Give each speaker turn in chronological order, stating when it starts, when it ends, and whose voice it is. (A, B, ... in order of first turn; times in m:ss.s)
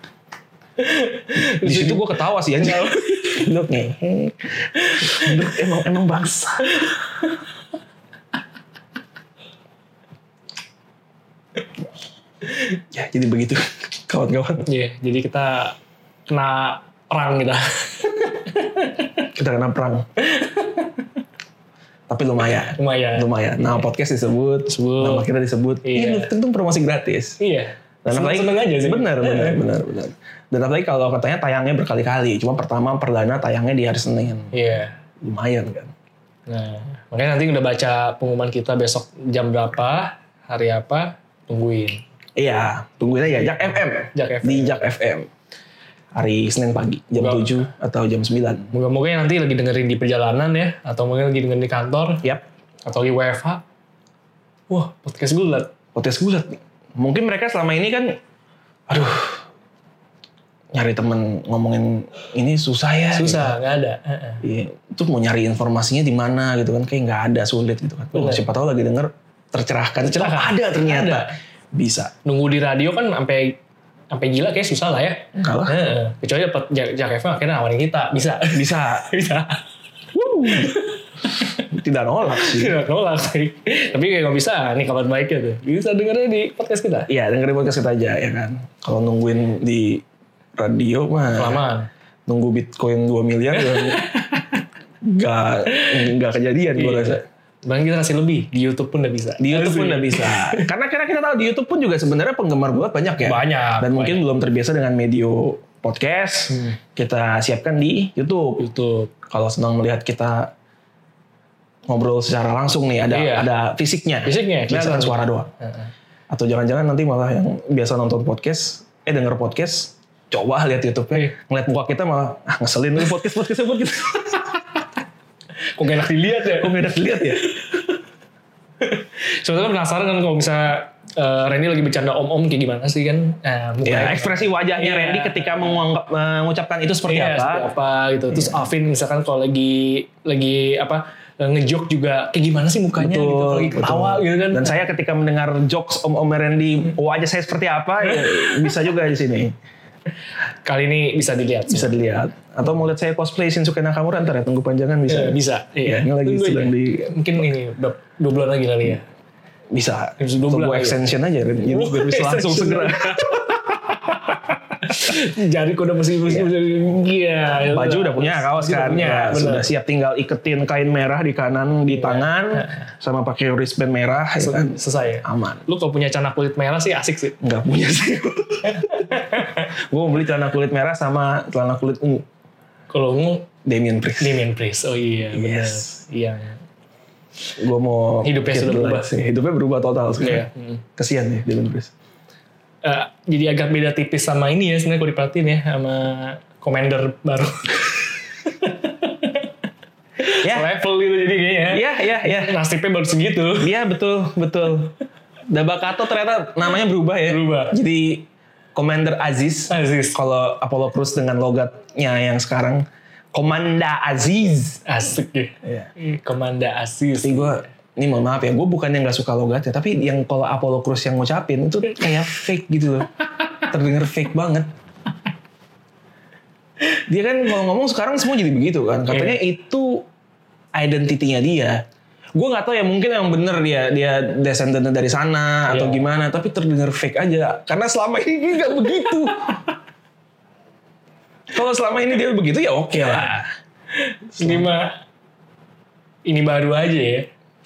0:00.8-0:03.4 A
0:01.4-0:06.8 B
0:04.8-0:05.4 A
0:12.9-0:14.6 B
0:14.6-0:15.8 A
0:16.3-0:19.2 A
0:19.3-0:20.0 B
0:20.2-0:21.1 A
0:22.1-0:27.4 B
0:22.8-0:23.8 A
0:24.7-0:25.3 A
0:25.8-0:26.3 A
0:27.4-0:29.6 A
0:28.0-0:34.5 B
0:34.5-0:35.0 A
0:35.2-0:35.9 B
0:36.5-0:42.0 A
0:42.4-0:45.3 B
0:44.1-0:44.9 A
0:46.1-0:48.7 B
0:47.2-0:47.6 A
0:48.7-0:52.2 A
0:52.8-0:53.6 A
0:54.7-0:55.7 A
0:55.9-0:58.2 B
0:58.9-0:59.5 B
1:00.7-1:03.5 B
1:03.1-1:04.4 A
1:04.4-1:12.1 B
1:08.1-1:08.4 A
1:10.2-1:11.3 A
1:12.2-1:13.6 A
1:14.1-1:19.6 A
1:15.3-1:15.8 B
1:18.5-1:19.1 B
1:20.1-1:20.8 B
1:20.4-1:21.6 A
1:21.5-1:22.8 B
1:22.3-1:27.1 A
1:27.1-1:30.0 B
1:30.6-1:31.6 B
1:31.4-1:31.9 A
1:32.3-1:34.0 B
1:33.5-1:34.6 A
1:35.0-1:37.2 B
1:35.7-1:36.0 A
1:36.7-1:40.7 A
1:39.4-1:48.6 B
1:43.2-1:44.3 A
1:46.5-1:46.8 A
1:48.6-1:49.1 A
1:49.3-1:50.5 B
1:51.9-1:55.5 B
1:53.1-1:53.5 A
1:54.2-1:55.9 A
1:56.3-2:04.5 B
2:05.8-2:07.8 A
2:06.5-2:07.4 B
2:08.8-2:15.8 A
2:13.8-2:17.7 B
2:17.1-2:24.8 A
2:18.3-2:18.6 B
2:23.0-2:29.5 B
2:28.1-2:28.7 A
2:30.6-2:32.1 A
2:31.7-2:37.5 B
2:35.1-2:39.0 A
2:39.7-2:43.6 B
2:40.2-2:41.0 A
2:41.6-2:49.7 A
2:46.2-2:46.5 B
2:47.6-2:55.6 B
2:51.9-2:52.8 A
2:54.4-2:57.4 A
2:57.4-3:02.2 B
2:58.6-2:59.7 A
3:02.9-3:03.5 A
3:03.6-3:04.4 B
3:04.2-3:06.6 A
3:05.3-3:05.9 B
3:07.6-3:11.9 B
3:08.2-3:09.1 A
3:10.2-3:10.8 A
3:12.8-3:19.5 A
3:20.2-3:21.8 A
3:20.4-3:20.6 B
3:21.7-3:22.6 B
3:22.4-3:23.7 A
3:23.6-3:24.9 B
3:25.5-3:34.8 B
3:27.3-3:27.8 A
3:29.7-3:30.2 A
3:34.8-3:37.6 A
3:35.6-3:35.9 B
3:37.2-3:44.7 B
3:47.1-3:50.0 B
3:49.1-3:49.4 A
3:50.7-3:51.8 B
3:52.3-3:59.6 B
3:55.7-3:56.0 A
3:58.8-3:59.6 A
4:01.5-4:03.5 B
4:03.9-4:05.0 A
4:04.3-4:04.7 B
4:06.2-4:07.3 A